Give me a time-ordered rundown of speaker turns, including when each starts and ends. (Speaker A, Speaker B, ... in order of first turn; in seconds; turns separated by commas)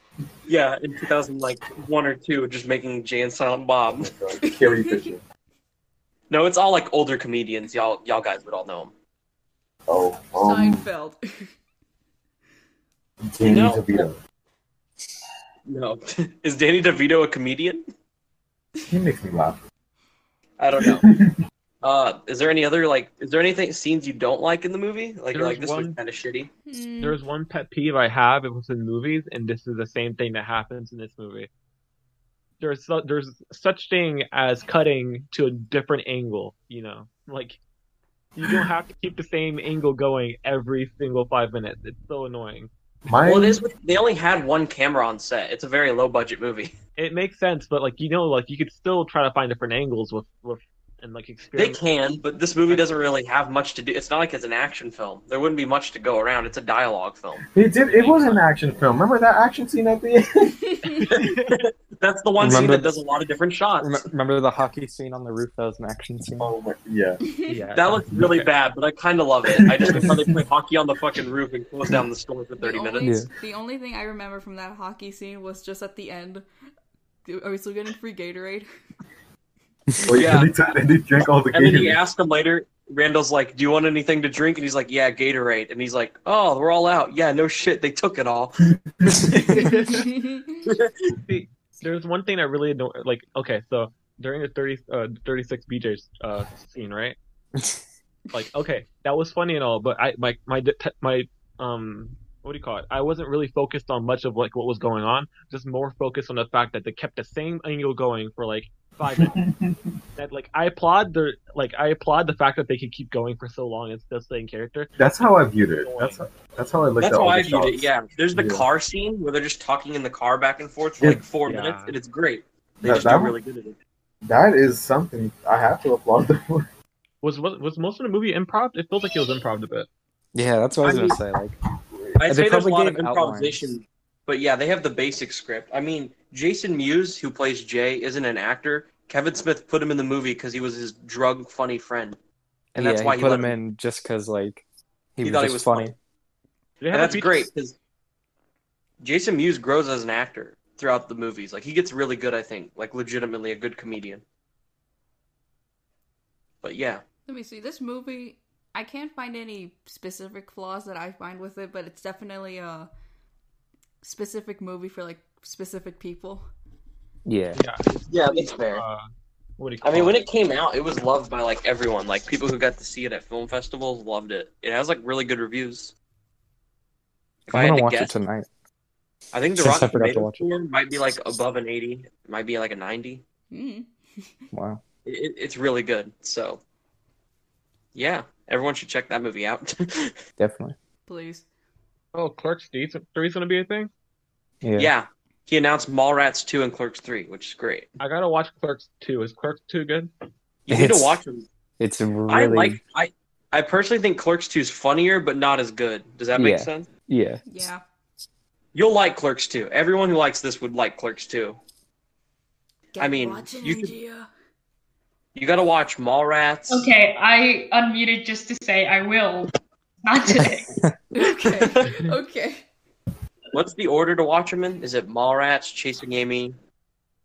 Speaker A: 0.5-4.1, Speaker B: 3.9-5.2, Speaker C: 4.4-5.1, Speaker A: 6.3-8.9, Speaker B: 9.9-10.8, Speaker C: 10.4-11.5, Speaker B: 13.2-14.2, Speaker A: 13.4-14.1, Speaker A: 15.7-17.8, Speaker B: 18.9-19.6, Speaker A: 20.6-21.1, Speaker B: 20.8-21.4, Speaker A: 21.8-26.5, Speaker D: 25.3-26.0, Speaker C: 26.7-27.2, Speaker D: 27.0-31.5, Speaker D: 32.6-37.6, Speaker D: 38.4-42.7, Speaker B: 43.1-43.6, Speaker A: 43.2-46.8, Speaker D: 47.0-51.8, Speaker A: 51.5-58.4, Speaker D: 52.7-53.0, Speaker B: 57.5-60.9, Speaker A: 61.1-64.0, Speaker D: 61.1-61.6, Speaker E: 62.4-63.0, Speaker E: 63.8-66.5, Speaker B: 66.4-67.2, Speaker D: 67.5-68.5, Speaker A: 67.7-73.1, Speaker B: 69.6-70.3, Speaker C: 72.6-76.5, Speaker E: 73.0-73.3, Speaker C: 77.3-78.7, Speaker B: 80.0-82.0, Speaker A: 80.1-80.5, Speaker A: 81.5-88.7, Speaker B: 89.0-89.3, Speaker E: 89.2-89.7, Speaker C: 89.5-90.6, Speaker D: 89.5-90.0, Speaker A: 90.6-91.0, Speaker D: 91.2-97.2, Speaker D: 98.3-109.4, Speaker B: 109.1-110.0, Speaker D: 110.2-114.9, Speaker B: 115.0-118.7, Speaker D: 115.8-116.2, Speaker A: 117.0-123.8, Speaker D: 121.4-122.0, Speaker B: 122.8-123.4, Speaker B: 124.2-126.7, Speaker D: 127.2-129.9, Speaker E: 130.3-131.6, Speaker A: 130.8-131.2, Speaker A: 132.2-142.2, Speaker E: 132.2-133.8, Speaker E: 142.8-144.6, Speaker A: 142.8-143.6, Speaker E: 145.2-145.9, Speaker A: 145.2-145.9, Speaker D: 146.8-147.5, Speaker A: 146.9-147.8, Speaker A: 149.0-154.2, Speaker A: 156.6-157.0, Speaker C: 157.3-162.9, Speaker C: 164.0-166.5, Speaker E: 167.3-167.6, Speaker D: 167.6-169.1, Speaker A: 168.1-168.8, Speaker D: 169.6-170.3, Speaker A: 169.8-175.9, Speaker A: 177.5-178.2, Speaker E: 177.5-178.5, Speaker A: 179.3-183.2, Speaker E: 179.6-180.4, Speaker C: 183.5-184.3, Speaker E: 184.5-184.8, Speaker A: 185.1-186.6, Speaker A: 187.9-190.2, Speaker E: 190.4-190.8, Speaker C: 191.1-191.4, Speaker D: 192.1-193.9, Speaker E: 194.6-194.9, Speaker A: 194.8-197.9, Speaker D: 198.0-200.1, Speaker A: 200.7-201.5, Speaker E: 200.7-201.2, Speaker E: 201.8-202.8, Speaker A: 202.3-206.9, Speaker E: 206.3-207.7, Speaker C: 207.4-207.8, Speaker A: 208.7-211.6, Speaker C: 212.9-214.3, Speaker A: 213.0-213.9, Speaker A: 215.3-216.9, Speaker F: 216.7-219.5, Speaker F: 220.0-220.7, Speaker E: 220.4-220.9, Speaker C: 221.1-222.6, Speaker A: 221.2-222.0, Speaker A: 223.5-226.6